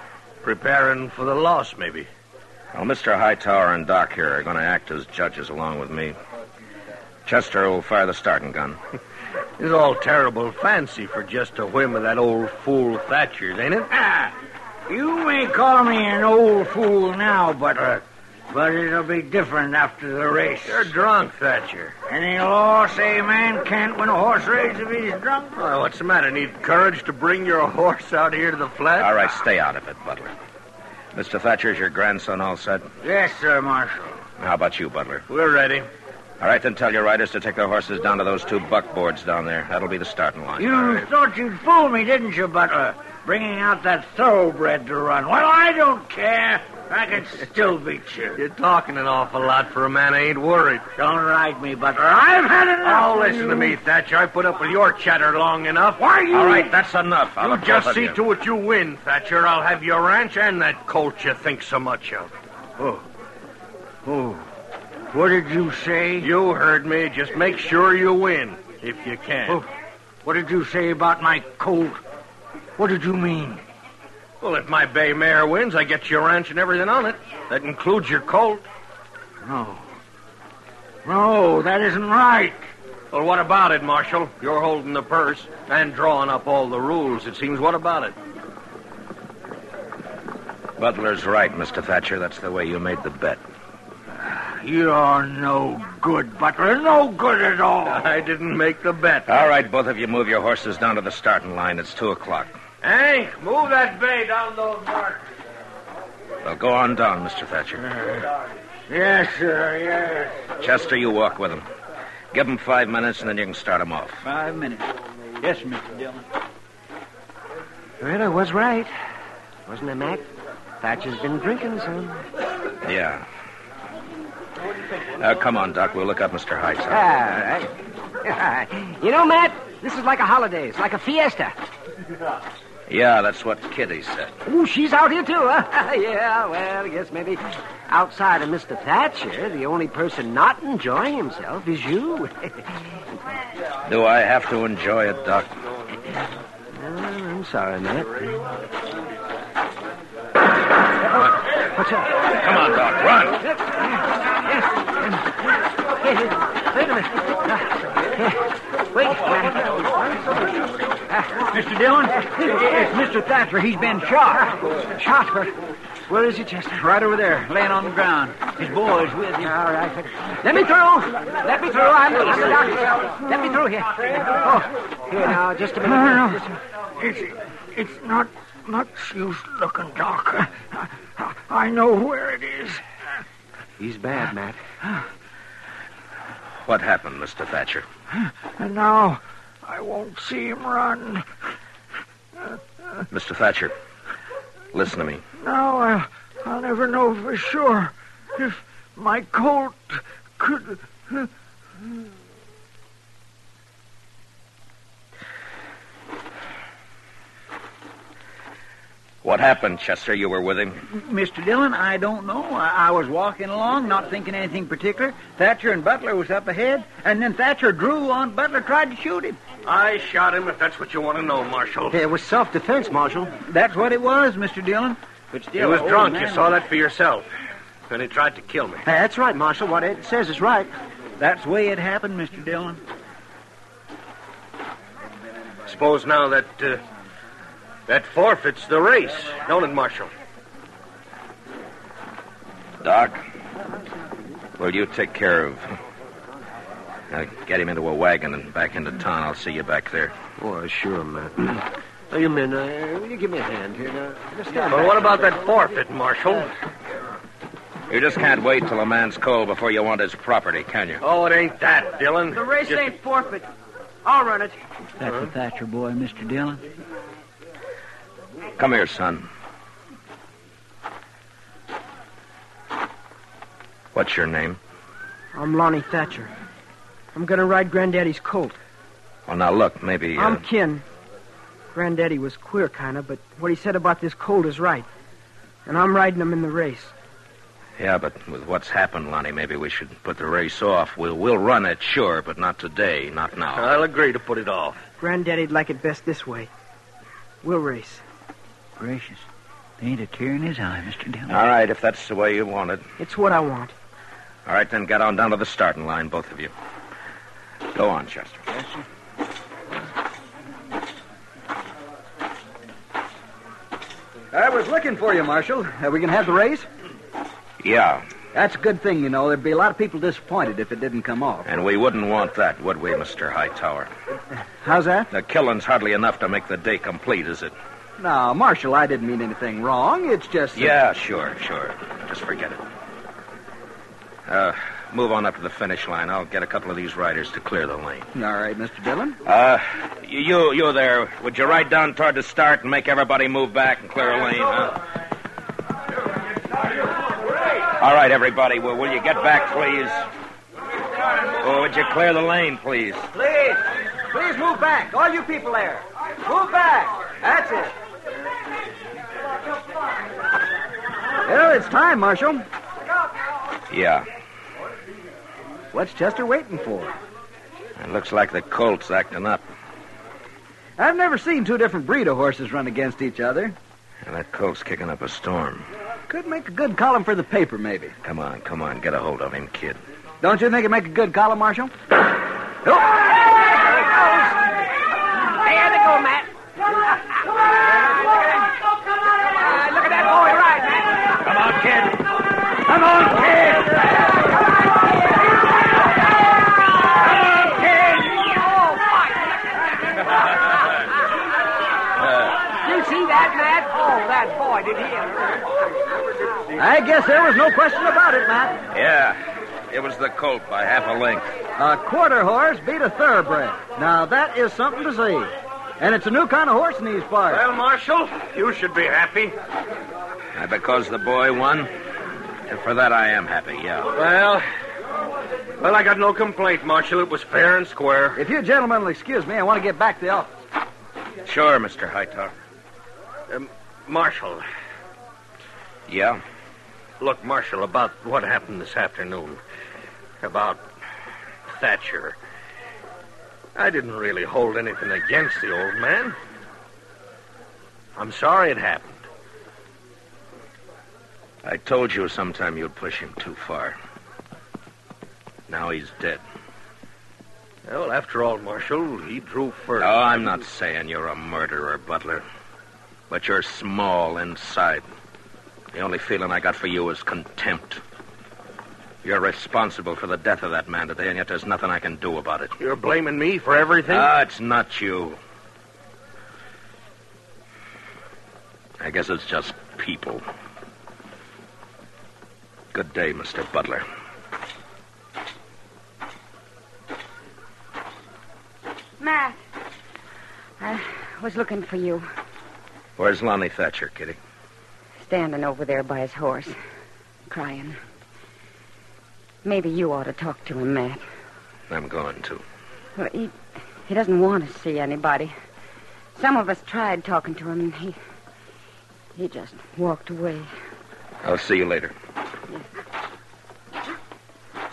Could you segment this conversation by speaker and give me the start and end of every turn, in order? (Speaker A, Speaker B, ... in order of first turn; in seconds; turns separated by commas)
Speaker A: 0.4-2.1, Speaker B: 2.7-6.2, Speaker B: 7.3-8.8, Speaker A: 9.6-14.0, Speaker C: 14.9-20.9, Speaker A: 20.6-22.0, Speaker C: 22.1-25.5, Speaker A: 25.6-29.3, Speaker B: 29.0-30.3, Speaker B: 31.1-32.9, Speaker C: 33.0-34.2, Speaker B: 34.4-35.2, Speaker A: 35.3-35.9, Speaker B: 36.4-41.1, Speaker C: 40.6-48.4, Speaker A: 48.4-50.9, Speaker C: 51.0-53.8, Speaker A: 52.8-56.1, Speaker C: 56.0-56.7, Speaker B: 56.3-58.2, Speaker A: 57.4-62.3, Speaker C: 64.0-64.5, Speaker C: 65.1-66.3, Speaker A: 66.2-69.6, Speaker C: 70.2-72.0, Speaker C: 72.8-73.6, Speaker A: 74.4-78.6, Speaker C: 79.4-79.8, Speaker C: 81.0-82.6, Speaker A: 83.1-88.2, Speaker B: 90.8-93.4, Speaker C: 94.2-98.1, Speaker A: 97.9-99.3, Speaker B: 99.3-102.6, Speaker A: 102.8-105.2, Speaker B: 106.4-108.1, Speaker C: 108.9-110.4, Speaker B: 110.6-111.6, Speaker B: 112.3-114.2, Speaker D: 114.2-114.9, Speaker D: 115.4-116.2, Speaker E: 118.0-118.9, Speaker E: 119.7-120.3, Speaker E: 120.8-122.3, Speaker B: 122.8-123.2, Speaker B: 125.2-127.0, Speaker E: 126.9-131.5, Speaker B: 132.9-134.4, Speaker E: 134.5-142.8, Speaker B: 143.9-145.5, Speaker E: 146.7-148.5, Speaker E: 151.8-152.2, Speaker B: 152.4-153.4, Speaker E: 153.4-161.3, Speaker D: 161.5-164.6, Speaker E: 164.8-165.5, Speaker E: 166.1-166.8, Speaker D: 166.8-169.5, Speaker E: 169.4-176.5, Speaker C: 176.0-176.2, Speaker C: 177.0-182.8, Speaker E: 183.8-184.6, Speaker B: 186.6-187.9, Speaker C: 188.2-191.2, Speaker B: 193.1-193.7, Speaker B: 194.7-195.2, Speaker C: 195.4-201.3, Speaker B: 209.2-210.8, Speaker D: 210.9-219.4, Speaker A: 219.7-222.0, Speaker E: 221.9-223.3, Speaker D: 223.4-226.5, Speaker A: 225.6-227.3, Speaker A: 227.9-228.8, Speaker E: 228.8-230.7, Speaker D: 231.2-232.8, Speaker A: 235.6-236.8, Speaker A: 237.9-240.1, Speaker B: 242.8-243.2, Speaker B: 244.6-245.7, Speaker B: 247.1-250.1, Speaker E: 250.4-255.2, Speaker A: 254.7-256.5, Speaker B: 257.9-261.0, Speaker A: 261.0-262.9, Speaker F: 262.3-263.5, Speaker F: 264.1-264.5, Speaker D: 265.0-266.6, Speaker B: 268.6-269.3, Speaker B: 273.9-274.6, Speaker F: 275.3-276.3, Speaker F: 277.1-278.6, Speaker B: 279.3-280.4, Speaker F: 280.1-280.9, Speaker F: 281.7-284.9, Speaker F: 285.6-286.9, Speaker B: 287.8-293.8, Speaker A: 293.6-294.9, Speaker F: 295.0-296.5, Speaker F: 297.4-298.0, Speaker D: 298.8-299.3, Speaker D: 299.8-301.4, Speaker B: 301.3-302.9, Speaker F: 303.0-303.7, Speaker B: 304.5-306.5, Speaker B: 307.8-308.4, Speaker G: 314.3-316.7, Speaker B: 317.6-318.1, Speaker G: 318.3-321.5, Speaker B: 321.5-323.9, Speaker G: 324.6-325.1, Speaker B: 325.1-327.5, Speaker G: 328.0-330.8, Speaker B: 330.6-332.6, Speaker B: 334.3-338.1, Speaker G: 338.1-339.2, Speaker B: 339.2-344.8, Speaker B: 347.8-350.0, Speaker B: 351.4-353.1, Speaker G: 353.1-357.8, Speaker G: 361.2-362.4, Speaker B: 363.7-364.1, Speaker G: 365.7-366.9, Speaker B: 367.8-369.4, Speaker G: 370.8-373.6, Speaker B: 374.1-375.7, Speaker G: 376.1-378.0, Speaker B: 378.0-379.8, Speaker G: 380.2-381.7, Speaker E: 383.1-384.5, Speaker E: 385.2-388.5, Speaker E: 389.2-391.2, Speaker E: 397.3-399.5, Speaker B: 402.0-402.3, Speaker E: 402.5-405.4, Speaker G: 406.5-408.6, Speaker B: 408.7-409.2, Speaker B: 409.7-411.3, Speaker G: 411.6-417.4, Speaker A: 417.3-419.4, Speaker B: 420.4-421.7, Speaker B: 422.5-423.9, Speaker A: 423.9-424.5, Speaker A: 425.6-428.2, Speaker G: 428.1-430.4, Speaker B: 431.2-432.3, Speaker A: 433.3-434.4, Speaker B: 435.9-436.2, Speaker A: 437.0-439.4, Speaker A: 440.2-440.6, Speaker A: 441.5-442.1, Speaker A: 443.6-446.1, Speaker A: 448.0-449.1, Speaker B: 451.4-453.8, Speaker B: 455.5-456.2, Speaker A: 457.6-460.3, Speaker B: 459.8-462.2, Speaker B: 463.1-464.9, Speaker B: 465.7-467.8, Speaker B: 469.0-472.6, Speaker A: 472.6-474.1, Speaker B: 473.9-475.2, Speaker B: 478.8-480.2, Speaker B: 482.7-483.9, Speaker H: 489.0-489.4, Speaker H: 490.6-492.1, Speaker B: 493.0-494.2, Speaker H: 495.0-496.6, Speaker H: 497.3-497.8, Speaker H: 499.4-501.0, Speaker B: 501.7-502.4, Speaker H: 503.0-505.3, Speaker H: 506.1-508.0, Speaker H: 509.1-510.5, Speaker B: 511.2-511.9